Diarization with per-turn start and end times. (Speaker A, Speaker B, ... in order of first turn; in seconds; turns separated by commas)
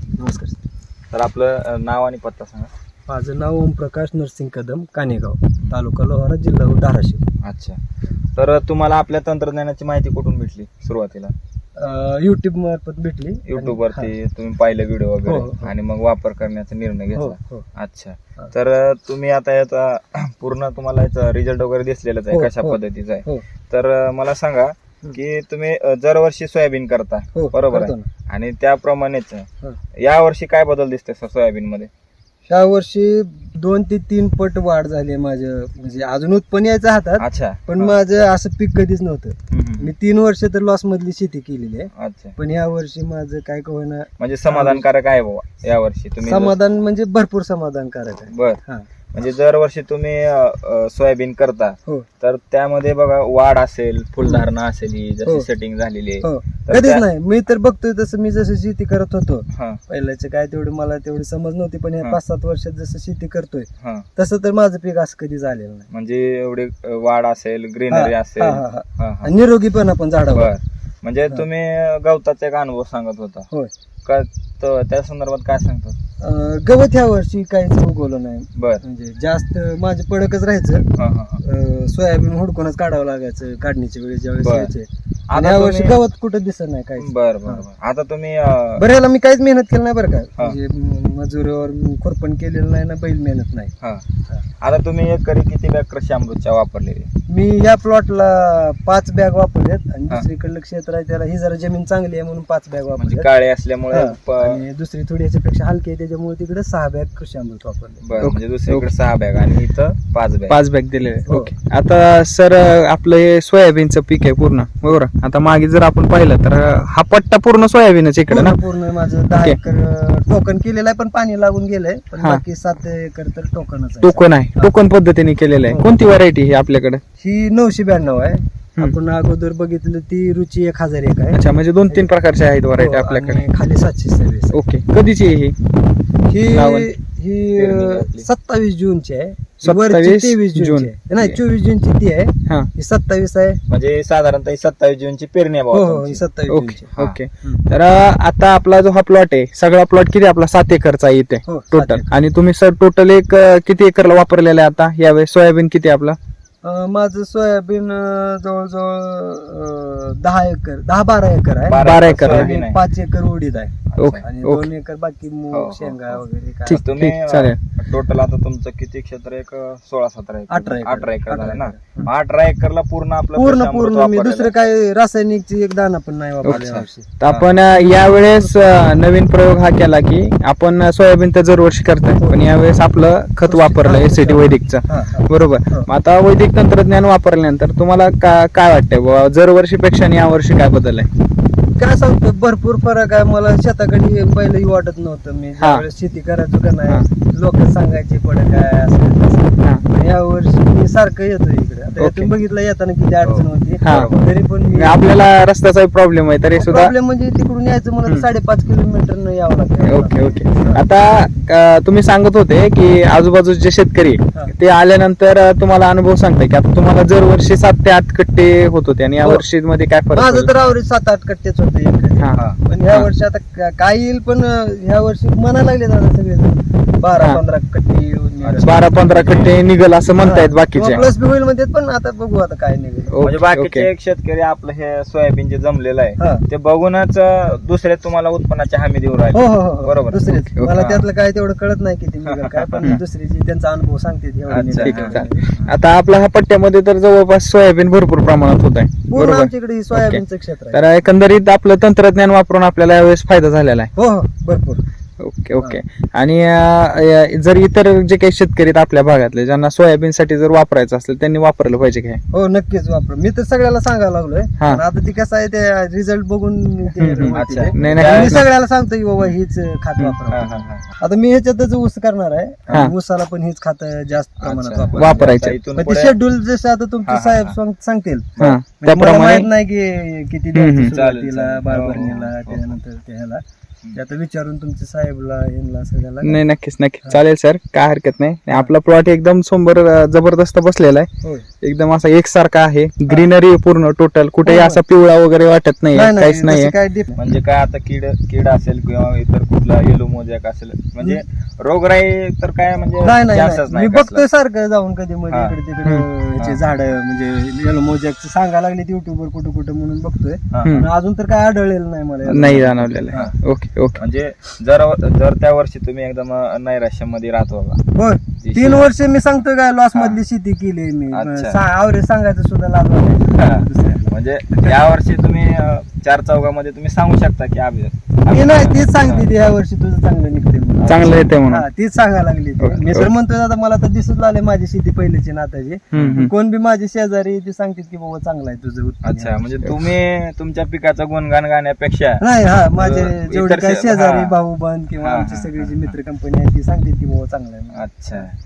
Speaker A: 0.2-0.6, Speaker B: 1.1-2.7, Speaker A: 3.1-7.2, Speaker B: 7.4-7.8, Speaker B: 8.3-11.3, Speaker A: 11.8-14.1, Speaker B: 13.5-29.4, Speaker A: 15.2-15.7, Speaker A: 17.1-17.6, Speaker A: 22.3-23.4, Speaker A: 27.3-28.1, Speaker B: 30.0-31.9, Speaker A: 32.5-44.9, Speaker B: 37.2-37.9, Speaker B: 39.5-39.9, Speaker B: 41.9-42.3, Speaker B: 44.2-46.6, Speaker A: 46.2-48.9, Speaker B: 48.3-48.6, Speaker B: 49.1-57.0, Speaker A: 54.2-54.4, Speaker A: 56.2-65.9, Speaker B: 59.5-59.8, Speaker B: 63.8-64.0, Speaker B: 65.9-69.3, Speaker A: 67.9-70.5, Speaker B: 70.3-73.5, Speaker B: 74.0-76.0, Speaker A: 76.2-80.9, Speaker B: 78.5-78.8, Speaker B: 80.9-81.4, Speaker A: 81.4-87.6, Speaker B: 84.4-84.7, Speaker B: 85.3-86.0, Speaker B: 87.0-88.8, Speaker A: 88.8-93.7, Speaker B: 94.6-97.1, Speaker A: 97.3-103.3, Speaker B: 103.0-104.6, Speaker A: 103.9-108.0, Speaker B: 108.0-110.6, Speaker C: 108.2-108.9, Speaker C: 110.5-118.6, Speaker A: 118.3-124.7, Speaker C: 124.0-127.0, Speaker A: 127.2-132.1, Speaker C: 131.3-133.4, Speaker A: 132.7-134.6, Speaker C: 134.5-135.6, Speaker A: 136.3-143.6, Speaker C: 136.5-136.9, Speaker B: 137.6-138.3, Speaker C: 139.6-141.4, Speaker B: 143.7-146.2, Speaker A: 145.7-146.9, Speaker C: 146.5-156.2, Speaker A: 151.4-152.1, Speaker A: 156.6-166.8, Speaker B: 161.7-162.8, Speaker C: 161.8-162.5, Speaker B: 163.9-164.2, Speaker C: 164.0-164.7, Speaker B: 165.5-174.5, Speaker C: 166.7-167.6, Speaker A: 170.5-172.1, Speaker A: 173.3-177.1, Speaker B: 176.5-177.6, Speaker C: 177.2-191.1, Speaker A: 177.7-178.5, Speaker A: 182.2-182.4, Speaker A: 183.4-185.9, Speaker A: 191.8-205.2, Speaker C: 202.0-202.3, Speaker B: 203.2-204.2, Speaker C: 203.8-204.1, Speaker C: 204.7-206.9, Speaker A: 206.6-210.8, Speaker C: 209.8-220.5, Speaker A: 220.1-228.9, Speaker B: 228.4-229.6, Speaker C: 228.6-231.1, Speaker A: 230.2-233.1, Speaker C: 233.1-233.9, Speaker B: 233.2-240.2, Speaker A: 236.2-236.4, Speaker A: 239.3-245.4, Speaker C: 240.5-240.8, Speaker B: 240.7-241.1, Speaker B: 242.2-242.9, Speaker B: 244.5-245.8, Speaker C: 244.8-250.2, Speaker A: 249.1-250.9, Speaker C: 250.7-253.9, Speaker A: 253.9-254.8, Speaker C: 255.2-262.2, Speaker A: 262.3-278.3, Speaker C: 267.0-268.4, Speaker B: 267.3-268.4, Speaker B: 270.3-270.9, Speaker B: 274.4-276.1, Speaker C: 274.9-275.6, Speaker B: 277.0-277.5, Speaker C: 278.4-279.5, Speaker A: 278.8-283.4, Speaker C: 280.5-280.9, Speaker B: 280.9-282.7, Speaker A: 283.9-286.4, Speaker C: 286.2-291.1, Speaker C: 291.6-296.7, Speaker A: 294.4-294.8, Speaker A: 295.9-297.2, Speaker B: 297.1-304.2, Speaker A: 303.0-313.3, Speaker B: 310.5-310.9, Speaker C: 312.2-314.0, Speaker B: 314.0-317.8, Speaker A: 317.9-324.1, Speaker B: 318.4-318.9, Speaker B: 321.1-321.6, Speaker B: 323.4-329.3, Speaker A: 328.3-339.7, Speaker C: 330.8-331.6, Speaker C: 332.6-333.1, Speaker B: 335.9-336.3, Speaker C: 335.9-336.3, Speaker B: 339.0-342.2, Speaker A: 342.2-348.3, Speaker B: 342.8-344.3, Speaker B: 345.0-345.9, Speaker B: 347.7-348.3